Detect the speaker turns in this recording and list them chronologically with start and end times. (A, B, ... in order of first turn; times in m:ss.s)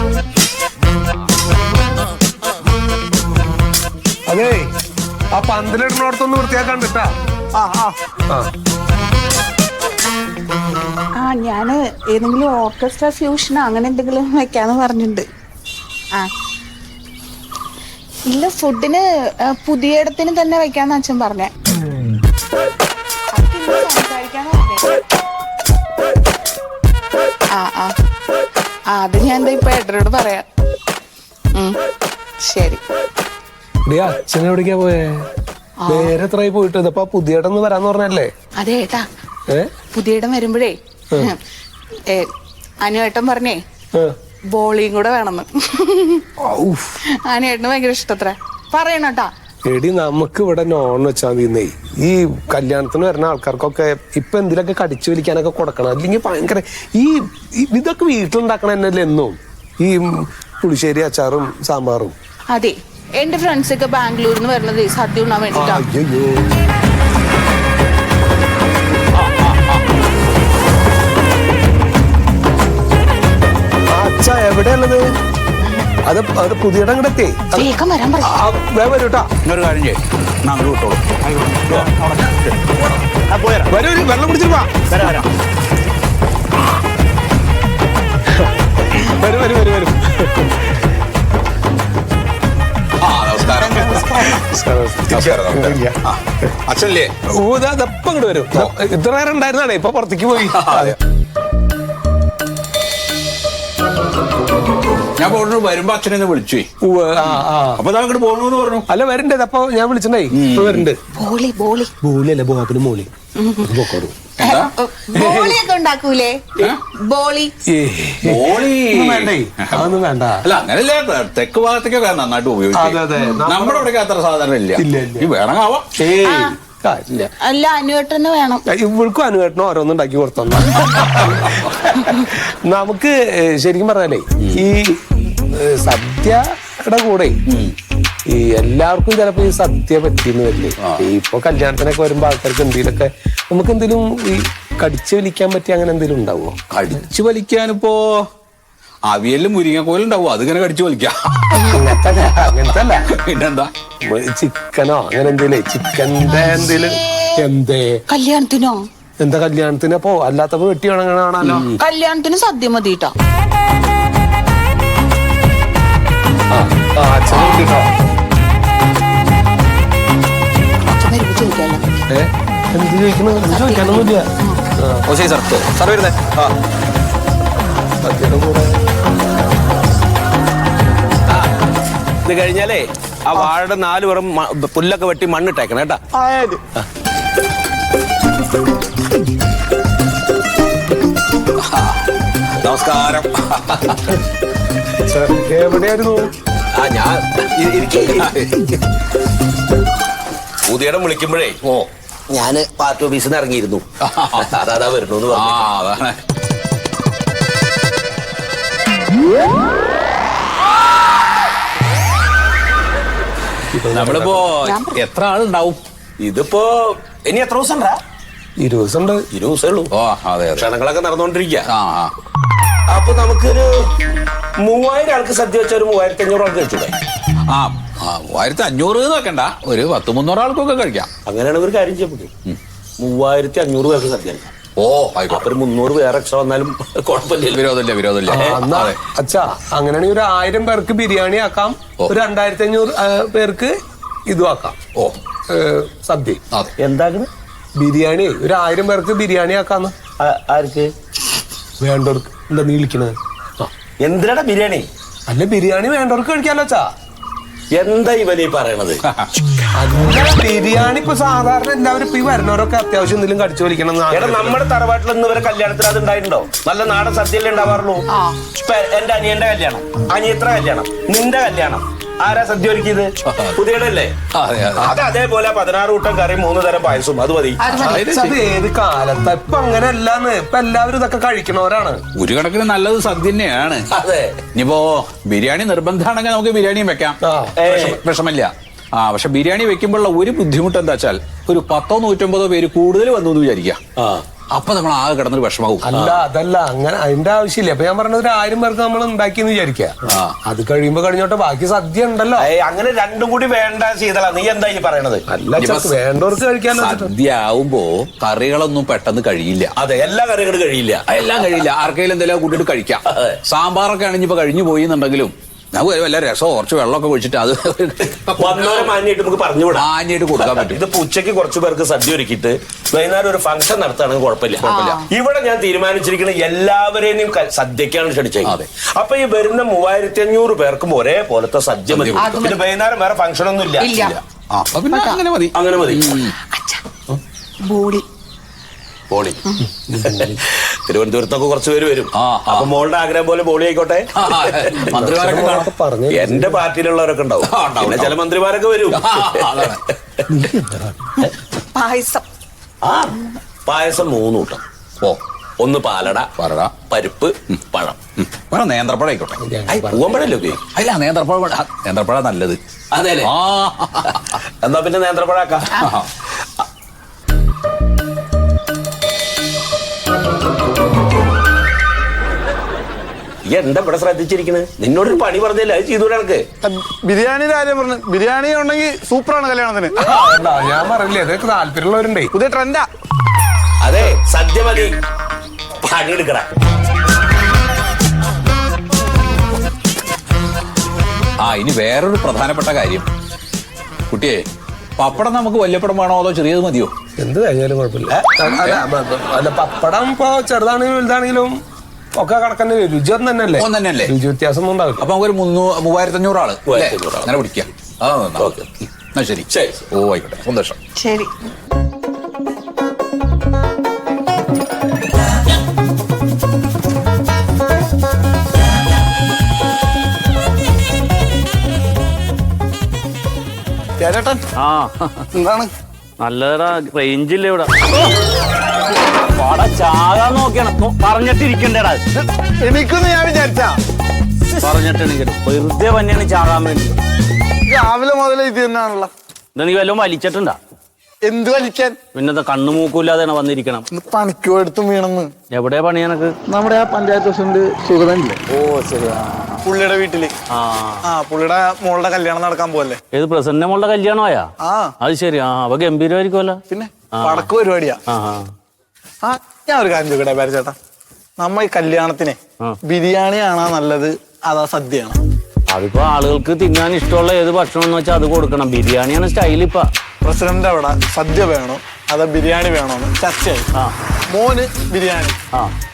0:04.3-0:04.7 A
0:05.3-0:07.1 A
0:07.5-0:08.0 B
0:11.2-0:15.2 C
0:18.3-0:21.5 C
0:23.3-0:25.0 C
0:27.6-0:27.9 C
0:29.0-0:30.4 C
0:32.4-0:32.8 C
0:33.9-0:35.2 A
0:35.8-0:36.1 C
0:35.9-0:38.3 A
0:38.6-0:39.1 C
0:39.9-0:41.4 C
0:42.8-0:43.6 C
0:44.5-0:46.2 C
0:46.4-0:46.9 A
0:47.3-0:49.3 C
0:49.7-1:02.1 A
1:02.5-1:05.8 C
1:05.5-1:06.4 A
1:09.2-1:09.8 D
1:14.0-1:15.0 A
1:16.1-1:17.7 A
1:17.5-1:18.4 C
1:18.2-1:19.3 A
1:19.4-1:21.9 D
1:23.7-1:25.2 A
1:28.4-1:30.7 A
1:33.0-1:34.4 D
1:33.7-1:35.9 A
1:35.1-1:37.1 D
1:37.4-1:41.0 A
1:40.5-1:41.0 D
1:45.2-1:46.7 D
1:46.8-1:47.8 A
1:47.2-1:48.8 D
1:48.9-1:51.0 A
1:50.3-1:50.9 D
1:51.2-1:51.9 C
1:52.0-1:53.1 A
1:53.4-1:53.8 C
1:53.6-1:54.3 A
1:54.4-1:54.7 D
1:54.4-1:57.5 C
1:55.1-1:55.6 A
1:57.7-2:00.4 A
1:58.2-1:59.9 D
2:00.4-2:05.9 D
2:02.7-2:03.9 A
2:04.8-2:05.3 A
2:06.0-2:07.3 A
2:06.1-2:06.6 C
2:07.4-2:08.6 C
2:08.7-2:17.4 A
2:17.5-2:17.7 D
2:18.3-2:26.6 A
2:26.7-2:28.2 D
2:29.1-2:33.7 D
2:31.7-2:33.0 A
2:34.1-2:38.0 A
2:38.1-2:38.8 C
2:39.2-2:41.8 A
2:41.8-2:43.1 C
2:46.5-2:47.9 A
2:47.3-2:47.6 D
2:50.9-2:51.8 C
2:52.1-2:54.2 A
2:53.5-2:54.6 C
2:54.8-2:55.0 A
2:55.1-2:56.3 D
2:58.0-2:58.8 A
3:02.2-3:06.0 E
3:06.1-3:06.6 B
3:12.6-3:14.0 D
3:15.0-3:16.3 A
3:16.7-3:18.3 E
3:18.2-3:18.7 D
3:20.6-3:23.8 E
3:24.0-3:24.5 D
3:24.4-3:25.7 E
3:25.3-3:26.2 D
3:33.7-3:34.5 A
3:33.9-3:35.8 D
3:34.6-3:35.0 C
3:36.2-3:38.0 E
3:38.6-3:39.2 A
3:39.3-3:39.9 E
3:39.9-3:40.7 D
3:40.6-3:41.7 E
3:41.6-3:42.1 D
3:42.9-3:43.9 E
3:44.6-3:47.0 E
3:47.5-3:51.1 D
3:51.2-3:52.3 E
3:53.0-3:54.5 E
3:54.8-3:55.5 D
3:55.3-3:57.6 E
3:57.5-3:59.0 D
3:58.3-4:03.7 A
4:04.3-4:04.8 A
4:05.5-4:06.4 A
4:06.8-4:07.3 E
4:07.8-4:09.9 A
4:10.2-4:10.9 E
4:11.8-4:13.7 A
4:14.0-4:14.9 E
4:15.3-4:16.9 A
4:17.7-4:19.0 E
4:19.8-4:24.6 A
4:24.1-4:34.2 E
4:28.1-4:28.4 C
4:33.3-4:33.6 D
4:34.3-4:35.0 D
4:34.8-4:37.6 E
4:37.6-4:38.0 C
4:37.7-4:38.4 D
4:37.8-4:42.0 A
4:42.2-4:43.9 D
4:43.9-4:44.4 E
4:44.5-4:53.8 D
4:47.2-4:47.5 A
4:47.6-4:48.0 E
4:54.0-4:54.2 E
4:54.5-4:55.9 D
4:55.8-5:02.5 A
4:55.9-4:56.2 E
5:00.1-5:00.3 D
5:02.4-5:05.2 E
5:05.3-5:07.1 A
5:05.6-5:05.9 D
5:06.7-5:09.7 D
5:09.8-5:11.0 E
5:11.1-5:19.0 D
5:13.1-5:13.4 E
5:18.4-5:19.9 E
5:19.7-5:20.8 D
5:20.4-5:33.9 E
5:24.6-5:25.1 C
5:24.7-5:25.0 D
5:31.9-5:32.5 D
5:32.2-5:32.6 C
5:33.8-5:34.2 C
5:34.0-5:36.4 D
5:34.9-5:35.2 C
5:35.5-5:36.2 E
5:36.5-5:36.8 C
5:37.6-5:38.0 C
5:39.1-5:45.5 E
5:39.9-5:40.4 A
5:42.1-5:42.7 D
5:44.2-5:45.7 D
5:44.8-5:46.6 A
5:46.1-5:49.8 E
5:47.4-5:48.2 D
5:48.9-5:49.8 D
5:50.4-5:50.9 A
5:51.7-5:52.2 C
5:52.8-5:53.1 E
5:53.7-5:54.6 E
5:55.6-5:56.3 E
5:56.4-5:56.8 D
5:56.8-5:58.0 E
5:58.2-5:59.4 D
5:59.4-6:00.2 A
5:59.7-6:00.6 E
6:00.7-6:02.6 D
6:02.9-6:03.3 E
6:03.2-6:04.4 D
6:04.6-6:05.8 E
6:05.8-6:06.1 D
6:13.4-6:16.5 E
6:16.6-6:19.9 B
6:20.0-6:22.3 A
6:22.3-6:22.9 B
6:23.8-6:24.9 E
6:25.8-6:26.5 E
6:31.4-6:33.1 D
6:34.1-6:34.4 D
6:35.0-6:36.9 D
6:37.2-6:41.6 A
6:38.1-6:38.5 E
6:42.2-6:45.1 A
6:43.6-6:44.1 D
6:45.0-6:50.8 D
6:46.7-6:47.3 E
6:48.4-6:48.6 E
6:49.5-6:49.8 E
6:51.0-6:51.3 C
7:04.0-7:04.4 B
7:04.6-7:05.2 F
7:05.3-7:05.7 B
7:06.2-7:07.9 F
7:09.2-7:12.0 F
7:12.2-7:13.7 B
7:14.6-7:17.0 F
7:17.7-7:19.1 B
7:19.6-7:20.6 F
7:21.2-7:22.0 B
7:22.2-7:23.9 F
7:23.9-7:25.3 B
7:25.5-7:26.3 F
7:26.5-7:28.4 B
7:28.5-7:29.5 F
7:29.6-7:30.3 B
7:30.6-7:31.1 F
7:31.0-7:33.0 B
7:33.1-7:34.5 F
7:34.6-7:34.9 B
7:35.0-7:36.6 F
7:36.7-7:38.0 B
7:37.2-7:37.5 F
7:38.1-7:38.5 F
7:39.2-7:40.8 B
7:41.4-7:45.2 B
7:45.7-7:49.9 F
7:50.2-7:53.7 B
7:54.3-7:55.4 B